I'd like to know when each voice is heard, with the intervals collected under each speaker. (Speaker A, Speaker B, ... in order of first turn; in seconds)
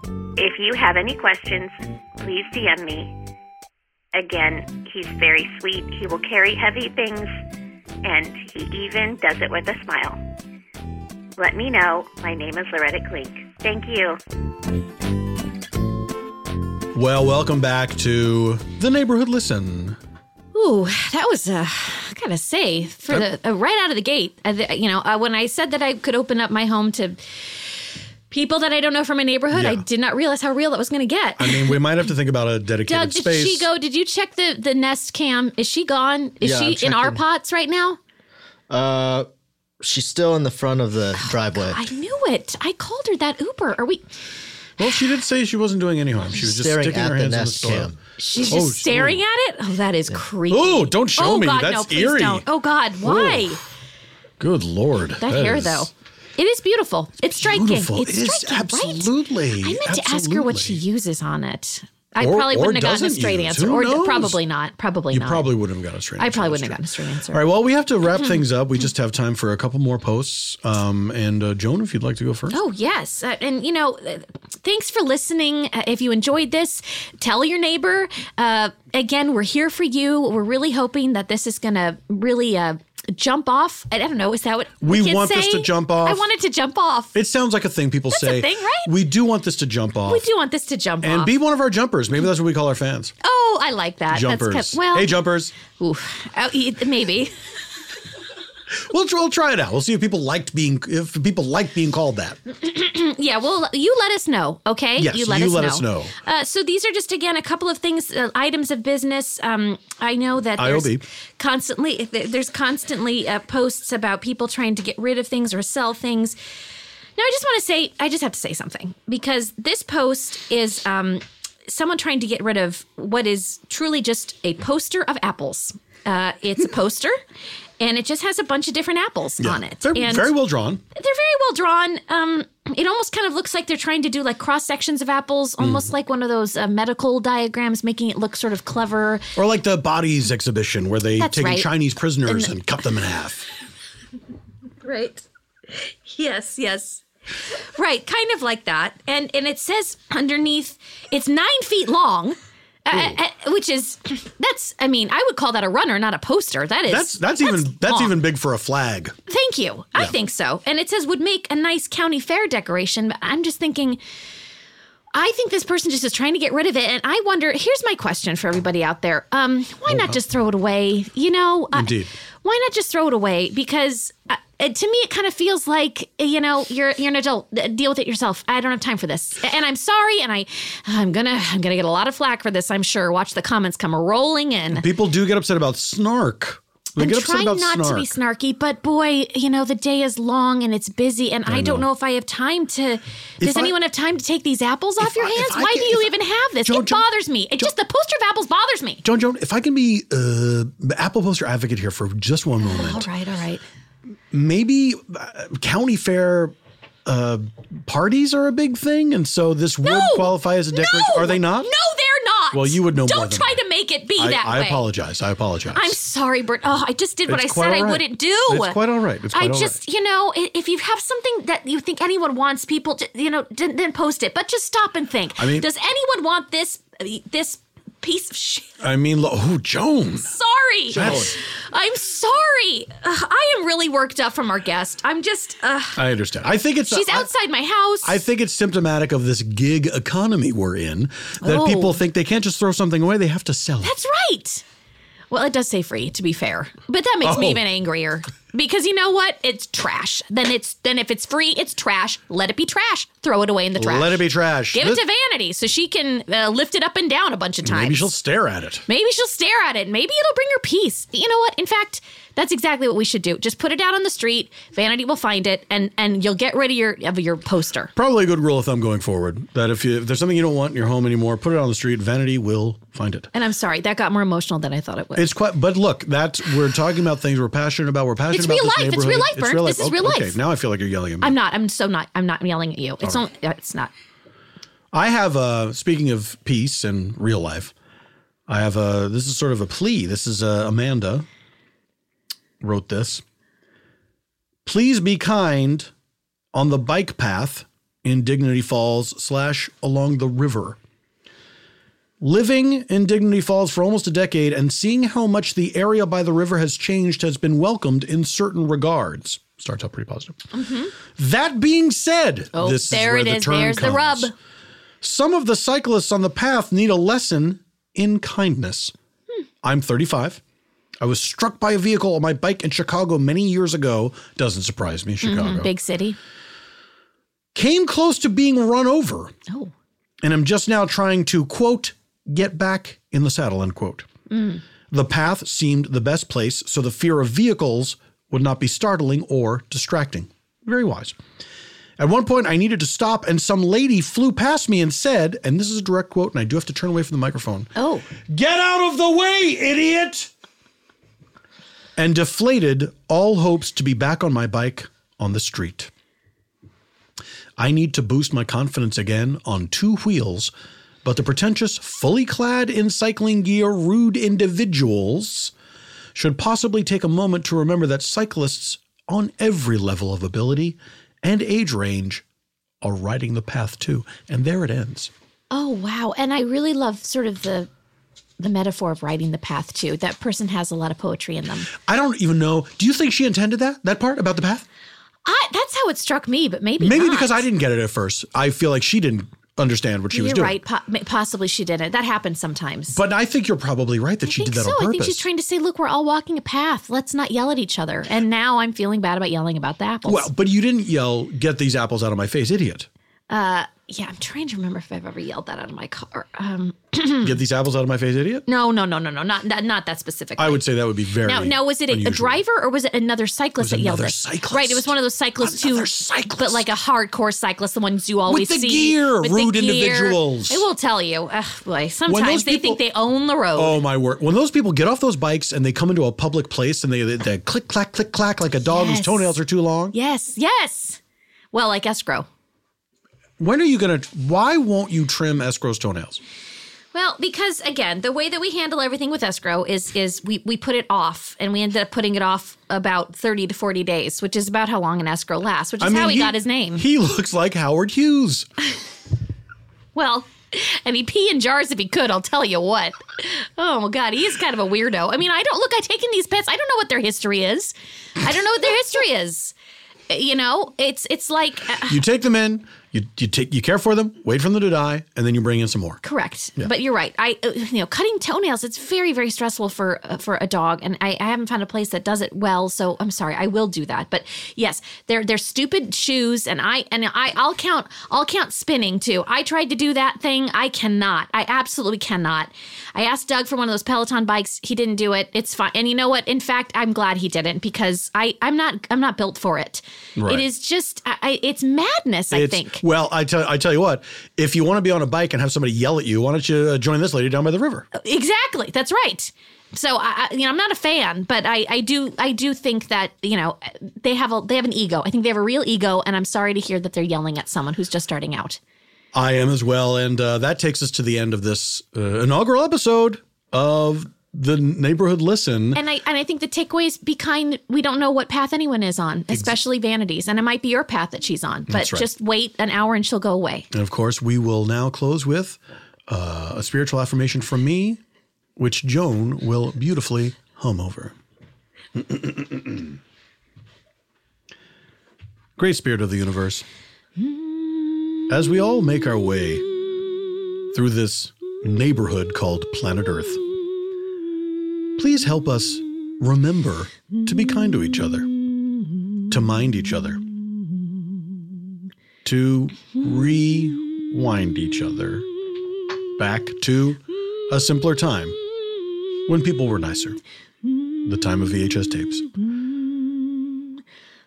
Speaker A: 0.4-3.1, 4.1-7.3, 8.0-10.2, 11.4-14.2
Speaker B: 16.9-20.0, 29.5-29.8, 31.4-33.7, 44.8-49.2, 50.5-52.4, 53.0-53.5, 54.4-55.9, 57.3-60.8, 62.2-64.4, 65.1-66.8, 67.3-72.6, 84.8-86.3, 87.1-90.2, 91.0-93.1, 94.1-95.5, 98.9-102.4, 105.0-106.1, 110.6-111.0, 129.4-130.8, 135.6-135.9, 139.3-143.5, 156.9-159.2, 169.9-170.2, 171.7-172.1, 184.7-188.1, 191.5-191.8, 193.4-193.7, 195.0-197.1, 199.0-203.1, 204.3-206.5, 207.1-211.7, 212.5-213.6, 214.2-216.0, 217.3-219.8, 225.4-225.7, 228.8-230.3, 230.9-231.4, 235.9-237.3, 238.0-244.0, 247.2-247.6, 253.8-255.0, 257.6-258.8, 267.9-273.3, 275.1-281.4, 284.9-287.7, 288.5-291.2, 292.6-293.2, 294.6-295.9, 296.5-300.8, 302.2-310.4, 311.1-314.3, 315.0-318.9, 319.6-320.4, 321.0-325.7, 327.5-329.4, 330.2-334.1, 334.9-341.1, 342.0-347.7, 348.3-350.3, 352.0-355.9, 357.6-360.5, 361.0-365.5, 366.1-372.2, 372.8-375.1, 381.8-384.6, 386.8-390.6, 392.9-395.2, 400.1-402.9, 407.2-408.4, 410.4-412.4, 413.6-416.6, 418.3-420.6, 422.1-422.8, 423.6-429.9, 433.4-436.2, 445.8-448.5, 461.9-466.0, 490.2-490.5, 492.3-497.9, 509.1-515.8, 519.3-519.6, 521.7-522.1, 523.7-528.0, 528.5-531.1, 531.9-533.0, 535.6-536.6, 538.3-539.7, 540.7-543.4, 545.0-548.3, 549.3-550.2, 552.2-555.3, 556.2-558.4, 559.3-560.2, 561.0-562.3
Speaker C: 20.5-27.7, 28.3-31.8, 32.9-38.0, 41.2-44.0, 48.2-53.6, 55.2-65.5, 66.2-67.4, 72.5-87.1, 88.1-88.9, 90.0-91.3, 93.2-97.3, 102.5-116.3, 117.2-127.2, 127.8-130.3, 130.9-139.3, 141.2-141.7, 142.2-142.6, 144.8-147.0, 147.6-158.1, 159.3-164.0, 165.1-184.8, 187.0-199.0, 202.6-203.6, 209.8-214.8, 215.7-218.8, 219.3-228.7, 230.2-236.0, 236.9-238.2, 241.4-242.0, 243.8-244.6, 245.3-254.2, 254.7-258.1, 258.9-267.9, 273.3-275.3, 278.3-280.4, 281.2-283.9, 310.5-310.9, 312.5-314.3, 325.2-326.2, 334.3-334.6, 347.8-348.1, 375.5-377.7, 378.4-381.7, 385.2-387.4, 390.1-393.0, 394.2-400.3, 403.3-407.3, 408.5-410.6, 411.2-423.8, 428.7-429.3, 429.9-431.0, 431.5-432.3, 436.9-446.9, 449.9-459.5, 460.1-462.0, 466.0-492.8, 497.9-508.6, 515.7-523.7
Speaker D: 36.4-37.2, 38.7-39.3, 39.8-41.9, 46.3-48.0